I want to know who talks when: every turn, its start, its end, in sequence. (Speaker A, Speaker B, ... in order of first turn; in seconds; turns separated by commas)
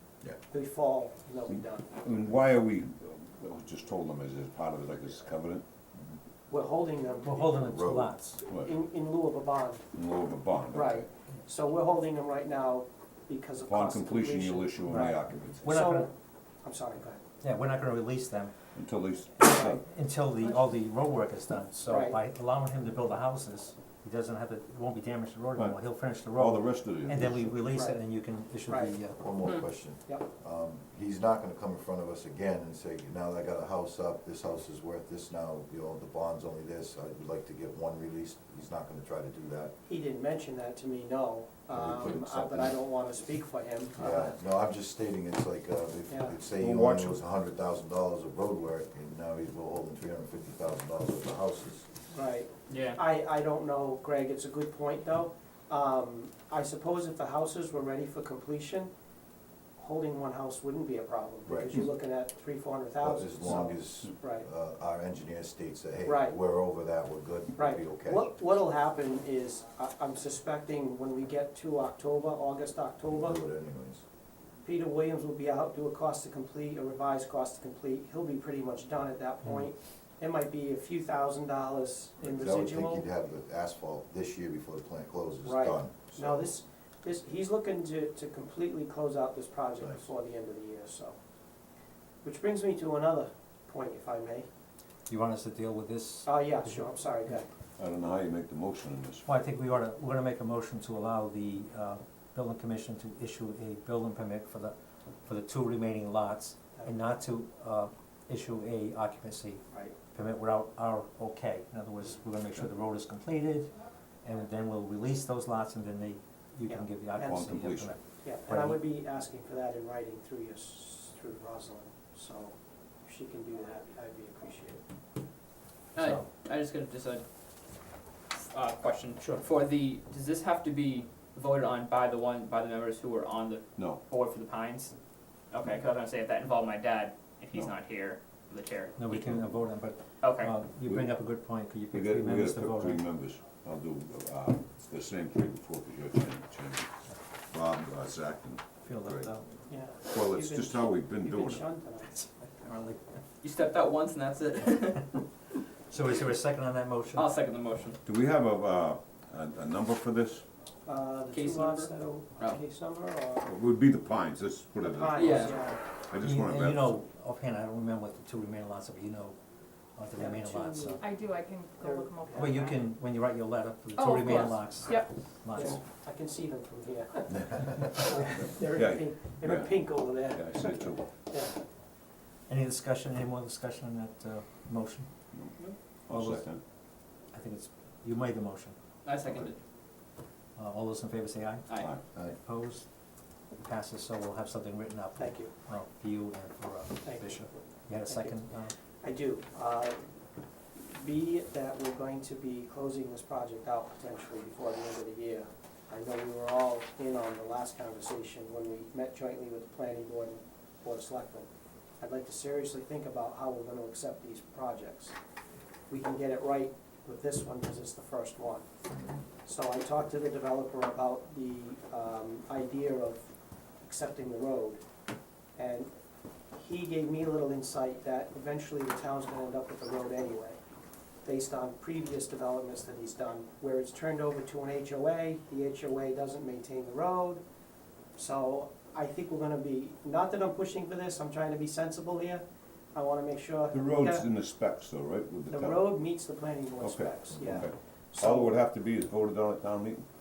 Speaker A: 0.5-1.9, Speaker B: 1.5-5.6, Speaker C: 5.9-6.2, Speaker A: 6.5-7.7, Speaker D: 7.2-8.4, Speaker C: 7.6-8.1, Speaker A: 8.3-9.8, Speaker B: 9.9-11.1, Speaker A: 10.7-17.2, Speaker B: 13.6-15.7, Speaker D: 14.9-16.1, Speaker D: 17.4-18.5, Speaker B: 18.7-19.8, Speaker A: 19.4-19.8, Speaker D: 19.5-29.3, Speaker A: 21.9-22.2, Speaker B: 25.6-27.6, Speaker A: 27.7-28.0, Speaker A: 28.7-28.9, Speaker C: 29.2-39.7, Speaker A: 39.8-44.3, Speaker C: 41.7-42.8, Speaker C: 44.0-51.9, Speaker A: 46.1-46.4, Speaker B: 46.6-47.2, Speaker A: 52.1-58.9, Speaker E: 52.7-53.0, Speaker A: 59.8-64.5, Speaker C: 61.5-61.8, Speaker C: 63.0-68.3, Speaker A: 66.0-66.3, Speaker A: 67.6-73.4, Speaker C: 73.1-74.0, Speaker A: 74.6-83.0, Speaker C: 82.2-86.2, Speaker A: 85.4-91.2, Speaker A: 92.2-94.5, Speaker D: 95.1-96.9, Speaker A: 96.2-97.5, Speaker B: 97.8-99.2, Speaker D: 99.2-104.7, Speaker D: 105.2-113.7, Speaker D: 114.2-118.8, Speaker A: 116.7-124.8, Speaker B: 117.2-118.0, Speaker E: 125.9-127.2, Speaker D: 126.0-126.3, Speaker E: 128.3-134.9, Speaker B: 133.8-134.0, Speaker E: 135.5-139.5, Speaker D: 139.0-143.0, Speaker E: 140.2-140.5, Speaker B: 140.8-141.1, Speaker B: 141.9-146.9, Speaker B: 147.5-149.3, Speaker D: 148.8-149.7, Speaker A: 149.7-152.4, Speaker B: 150.0-151.7, Speaker D: 152.5-153.2, Speaker E: 153.4-155.3, Speaker D: 155.9-157.3, Speaker E: 157.1-158.0, Speaker B: 158.0-160.4, Speaker A: 160.8-163.5, Speaker E: 161.3-162.6, Speaker B: 163.4-167.0, Speaker A: 164.8-165.8, Speaker E: 165.1-165.6, Speaker D: 166.2-169.3, Speaker D: 169.9-171.1, Speaker A: 170.2-171.1, Speaker F: 171.0-172.8, Speaker A: 171.8-172.6, Speaker D: 172.3-175.8, Speaker F: 174.0-175.1, Speaker A: 175.5-181.6, Speaker B: 178.6-181.0, Speaker D: 182.5-185.2, Speaker B: 185.3-186.6, Speaker D: 186.1-186.5, Speaker D: 187.2-188.8, Speaker E: 189.0-189.6, Speaker D: 190.6-191.7, Speaker B: 191.7-192.0, Speaker D: 192.2-192.9, Speaker D: 193.5-198.7, Speaker A: 195.2-195.5, Speaker A: 197.0-197.5, Speaker A: 198.0-198.4, Speaker A: 199.0-200.1, Speaker A: 200.8-211.5, Speaker A: 212.0-215.1, Speaker A: 215.9-218.7, Speaker C: 218.8-219.2, Speaker A: 219.4-223.3, Speaker A: 223.8-224.8, Speaker A: 225.6-225.9, Speaker A: 226.5-230.6, Speaker A: 231.2-237.4, Speaker A: 238.2-244.3, Speaker B: 243.7-245.9, Speaker A: 245.5-248.6, Speaker B: 246.8-250.0, Speaker C: 247.4-247.6